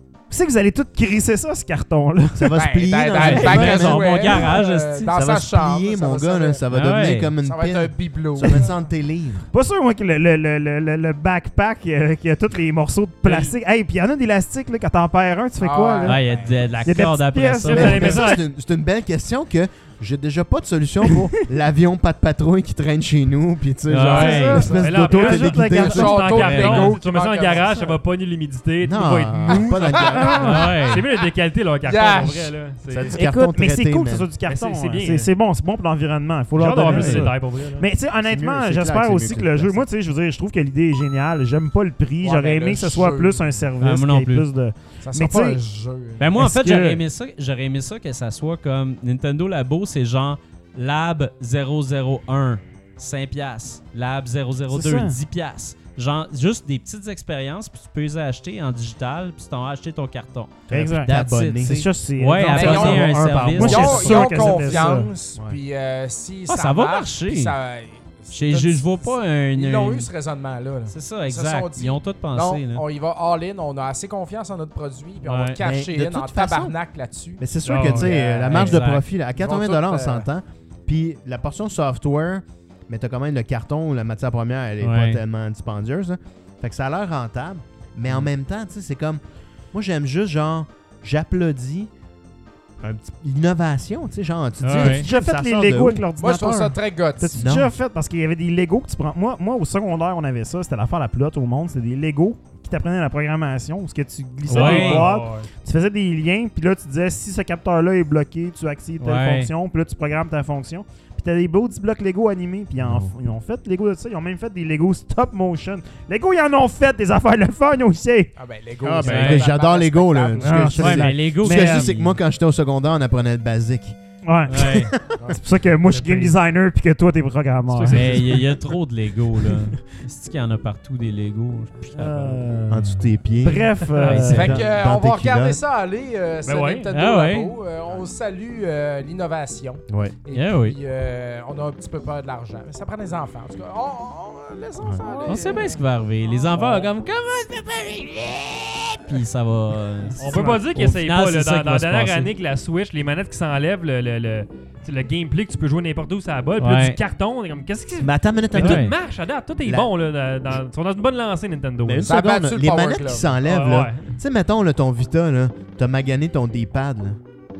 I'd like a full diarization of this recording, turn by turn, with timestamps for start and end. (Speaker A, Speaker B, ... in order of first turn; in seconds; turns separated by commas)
Speaker A: 0.3-2.6, Speaker B: 2.4-9.5, Speaker C: 2.6-8.8, Speaker D: 3.2-5.1, Speaker D: 6.7-7.3, Speaker A: 9.5-16.2, Speaker E: 13.2-13.6, Speaker C: 15.6-16.8, Speaker D: 16.1-18.1, Speaker A: 16.9-18.3, Speaker E: 17.7-18.4, Speaker B: 17.7-26.5, Speaker D: 23.9-24.7, Speaker A: 24.1-26.3, Speaker C: 24.1-24.9, Speaker E: 24.8-33.2, Speaker C: 25.6-28.0, Speaker D: 26.4-26.9, Speaker B: 28.8-30.8, Speaker C: 29.7-30.5, Speaker D: 30.3-31.0, Speaker C: 31.8-32.5, Speaker B: 32.9-34.3, Speaker A: 33.1-45.6, Speaker E: 34.5-35.3, Speaker E: 36.5-37.9, Speaker D: 36.8-37.3, Speaker B: 38.3-39.9, Speaker C: 42.2-43.4, Speaker D: 43.8-44.5, Speaker C: 45.0-46.3, Speaker D: 46.2-64.8, Speaker A: 46.4-47.0, Speaker A: 54.7-55.2, Speaker B: 60.7-61.9, Speaker A: 60.7-65.1, Speaker C: 62.5-80.3, Speaker D: 66.5-67.5, Speaker D: 68.3-70.1, Speaker D: 70.9-72.8, Speaker D: 75.2-75.6, Speaker B: 75.6-76.8, Speaker B: 77.4-89.2, Speaker E: 77.7-78.1, Speaker D: 78.5-79.0, Speaker D: 84.8-85.2, Speaker B: 89.7-91.9, Speaker B: 92.8-96.1, Speaker D: 94.6-95.1, Speaker A: 94.7-118.3, Speaker C: 96.2-97.4, Speaker B: 97.4-97.7, Speaker E: 104.5-105.5, Speaker D: 104.5-105.1, Speaker D: 109.0-109.5, Speaker B: 112.8-113.1, Speaker C: 118.4-120.7, Speaker B: 118.8-124.0, Speaker D: 119.0-119.5, Speaker A: 120.4-121.9, Speaker D: 120.8-122.2, Speaker A: 124.2-124.7, Speaker D: 124.5-124.9, Speaker B: 124.5-125.1, Speaker A: 125.3-128.4, Speaker E: 125.9-126.4, Speaker E: 127.8-128.0, Speaker D: 127.8-132.4, Speaker A: 132.0-134.6, Speaker B: 132.7-135.6, Speaker D: 134.0-134.6, Speaker E: 134.0-134.4, Speaker C: 134.3-146.8, Speaker E: 136.4-136.9, Speaker D: 136.9-137.5, Speaker B: 139.9-140.2, Speaker D: 140.3-140.8, Speaker D: 145.1-152.3, Speaker E: 150.2-162.1, Speaker A: 150.3-150.6, Speaker D: 156.6-157.0, Speaker B: 158.0-158.9, Speaker D: 158.6-158.9, Speaker B: 159.7-159.9, Speaker B: 161.8-167.2, Speaker C: 162.1-163.4, Speaker E: 163.4-164.1